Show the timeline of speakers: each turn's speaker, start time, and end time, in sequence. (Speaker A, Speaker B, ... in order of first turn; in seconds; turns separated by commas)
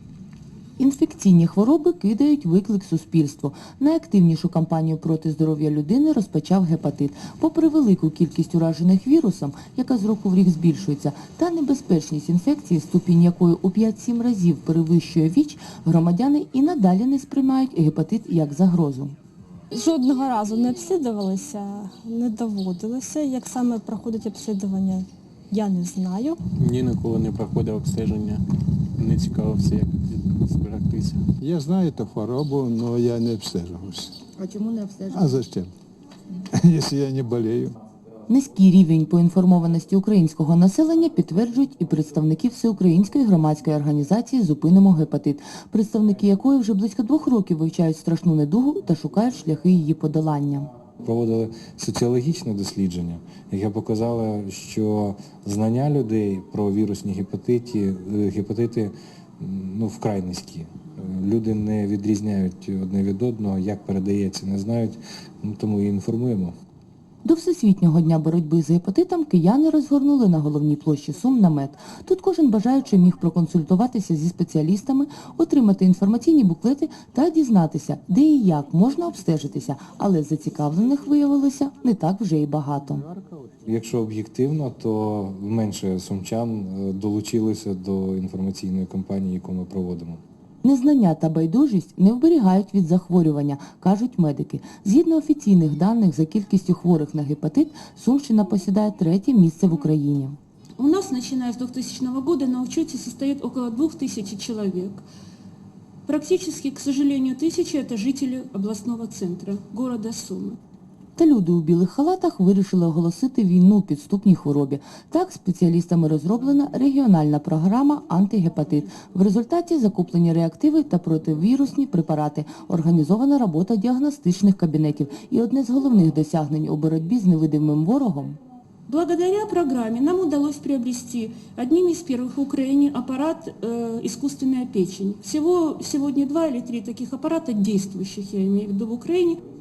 Speaker A: 0.8-19.1, Speaker B: 19.7-26.4, Speaker C: 26.6-28.4, Speaker C: 29.0-31.2, Speaker D: 31.4-34.1, Speaker A: 34.4-35.2, Speaker D: 35.1-35.7, Speaker D: 36.5-37.7, Speaker A: 38.3-50.7, Speaker E: 51.0-66.5, Speaker A: 67.2-83.0, Speaker E: 83.6-90.2, Speaker A: 90.6-100.4, Speaker F: 100.8-105.0, Speaker F: 106.0-110.6, Speaker A: 111.2-128.4, Speaker F: 128.9-139.4